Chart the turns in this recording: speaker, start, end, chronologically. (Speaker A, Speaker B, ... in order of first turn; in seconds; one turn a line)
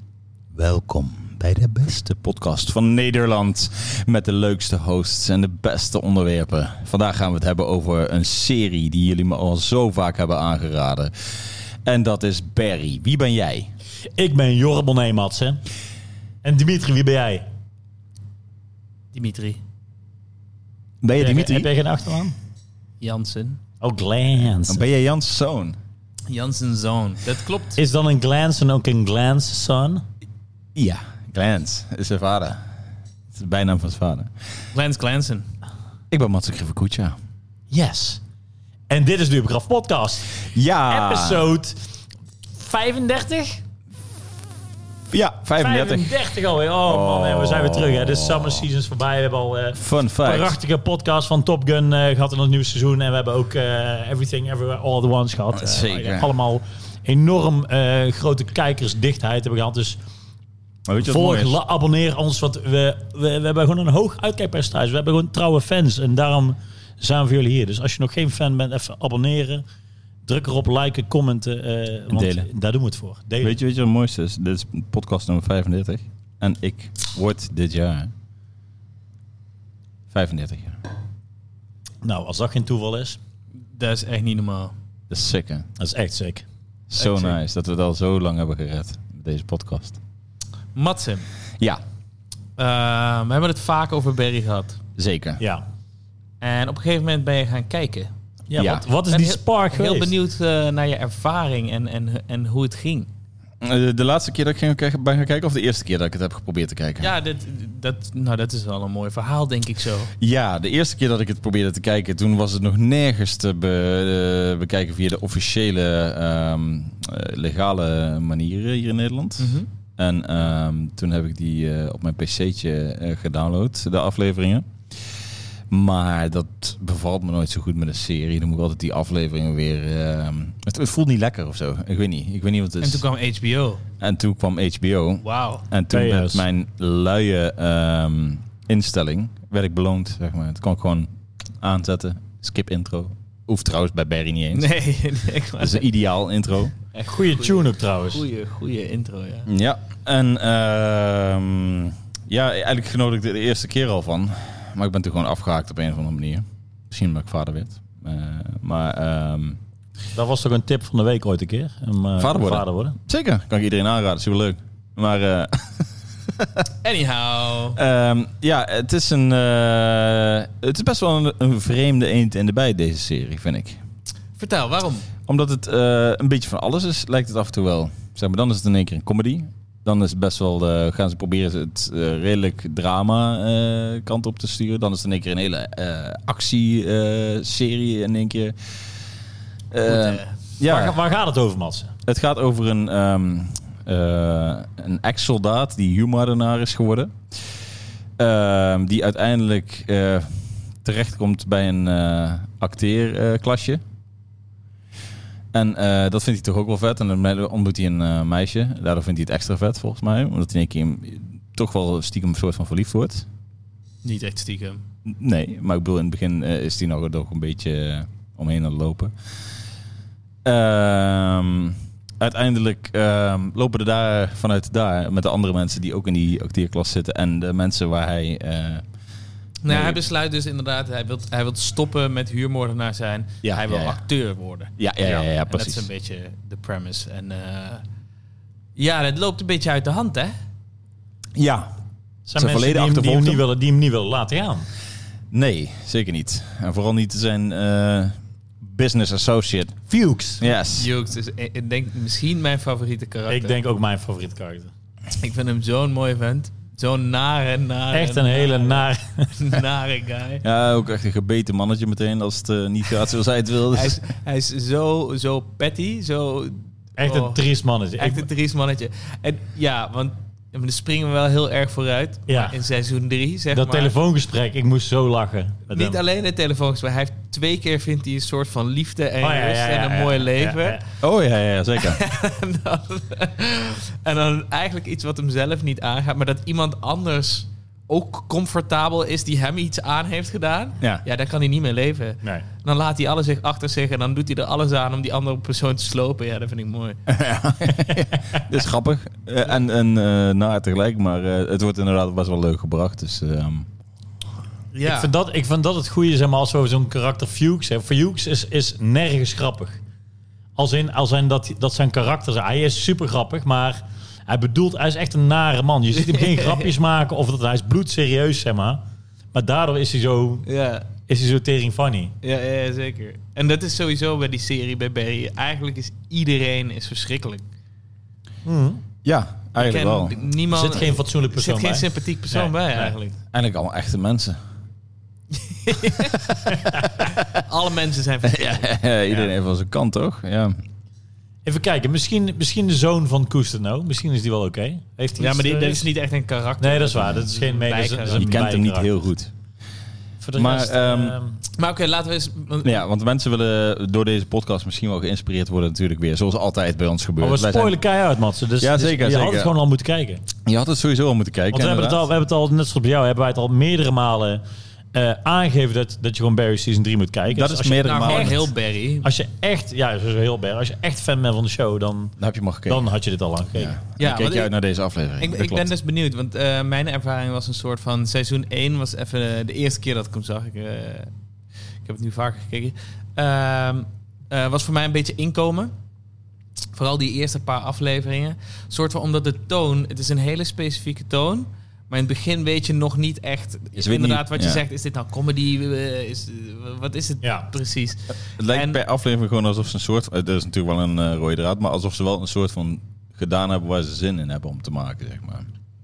Speaker A: 0.5-13.7
Speaker B: 14.2-15.6
Speaker B: 16.4-17.4
Speaker C: 19.1-19.6
Speaker A: 21.0-21.7
Speaker B: 21.1-22.4
Speaker C: 23.0-23.6
Speaker B: 23.8-24.9
Speaker A: 24.7-25.8
Speaker C: 26.3-27.8
Speaker B: 27.8-30.0
Speaker A: 30.8-32.6
Speaker A: 33.3-34.3
Speaker C: 34.7-35.5
Speaker A: 36.1-37.2
Speaker B: 37.7-38.2
Speaker B: 38.9-41.8
Speaker A: 40.5-41.5
Speaker B: 42.5-43.6
Speaker A: 45.1-46.2
Speaker B: 45.6-60.0
Speaker A: 46.9-48.6
Speaker A: 49.8-50.6
Speaker A: 55.5-56.3
Speaker A: 60.9-61.6
Speaker B: 61.0-69.6
Speaker B: 70.3-73.6
Speaker A: 72.1-72.5
Speaker A: 73.4-78.1
Speaker A: 80.1-80.8
Speaker B: 82.0-83.2
Speaker C: 83.8-84.7
Speaker A: 85.1-85.7
Speaker B: 85.8-86.5
Speaker A: 86.9-90.0
Speaker C: 90.8-91.3
Speaker C: 92.6-94.8
Speaker A: 95.0-95.4
Speaker B: 95.4-95.6
Speaker C: 96.4-98.1
Speaker B: 98.5-100.1
Speaker A: 98.6-98.8
Speaker C: 99.1-103.1
Speaker A: 103.6-107.1
Speaker C: 107.0-110.1
Speaker A: 110.2-125.1
Speaker C: 119.4-119.7
Speaker A: 125.7-133.0
Speaker C: 132.8-133.8
Speaker A: 134.0-141.1
Speaker C: 135.2-135.7
Speaker B: 135.9-136.4
Speaker A: 141.6-144.7
Speaker C: 144.5-145.9
Speaker A: 145.6-146.8
Speaker C: 146.9-149.5
Speaker B: 147.1-148.2
Speaker A: 149.5-159.6
Speaker B: 160.2-163.0
Speaker A: 162.2-166.7
Speaker C: 166.8-167.8
Speaker A: 167.8-173.8
Speaker C: 174.4-175.1
Speaker A: 175.3-188.6
Speaker A: 189.7-191.0
Speaker C: 189.9-190.4
Speaker B: 190.6-191.9
Speaker A: 192.1-197.2
Speaker A: 198.2-203.8
Speaker A: 205.5-213.3
Speaker C: 214.0-214.8
Speaker A: 215.1-219.1
Speaker A: 220.4-228.8
Speaker C: 229.6-237.8
Speaker A: 229.7-230.0
Speaker A: 233.4-234.0
Speaker A: 234.8-235.9
Speaker C: 238.8-240.3
Speaker A: 241.4-241.7
Speaker B: 242.3-244.7
Speaker A: 242.4-243.4
Speaker A: 245.3-249.8
Speaker B: 249.9-250.4
Speaker A: 250.4-250.9
Speaker C: 250.8-253.5
Speaker B: 253.3-254.7
Speaker C: 255.2-260.4
Speaker B: 257.9-259.4
Speaker A: 260.4-264.0
Speaker C: 263.7-267.4
Speaker B: 267.0-268.3
Speaker C: 268.0-273.9
Speaker B: 272.3-272.6
Speaker B: 273.5-276.0
Speaker C: 275.7-280.9
Speaker B: 279.2-280.8
Speaker A: 281.0-282.0
Speaker C: 281.8-297.0
Speaker A: 297.1-303.7
Speaker B: 297.7-298.0
Speaker C: 304.7-305.1
Speaker B: 304.9-309.8
Speaker B: 310.6-318.8
Speaker C: 315.9-316.7
Speaker B: 319.3-320.5
Speaker C: 320.5-320.9
Speaker B: 321.1-322.1
Speaker C: 322.2-327.4
Speaker B: 328.4-328.8
Speaker A: 329.0-330.2
Speaker C: 329.6-333.1
Speaker B: 330.5-332.9
Speaker A: 333.3-334.4
Speaker C: 335.4-336.4
Speaker B: 336.5-337.0
Speaker C: 337.0-338.7
Speaker A: 338.2-340.6
Speaker B: 341.4-345.9
Speaker C: 345.2-348.4
Speaker B: 346.6-348.9
Speaker A: 348.2-349.3
Speaker B: 350.2-351.4
Speaker A: 350.4-351.1
Speaker C: 351.6-352.8
Speaker A: 352.6-357.8
Speaker B: 357.2-360.2
Speaker A: 358.6-359.5
Speaker A: 360.4-362.0
Speaker B: 361.5-364.4
Speaker B: 364.9-368.5
Speaker A: 367.3-368.5
Speaker C: 367.8-369.1
Speaker B: 369.0-373.8
Speaker A: 372.2-372.9
Speaker A: 373.6-375.7
Speaker C: 374.0-374.5
Speaker C: 375.2-381.1
Speaker C: 381.8-385.7
Speaker C: 386.7-398.8
Speaker A: 393.8-394.6
Speaker B: 397.2-397.5
Speaker A: 398.4-405.5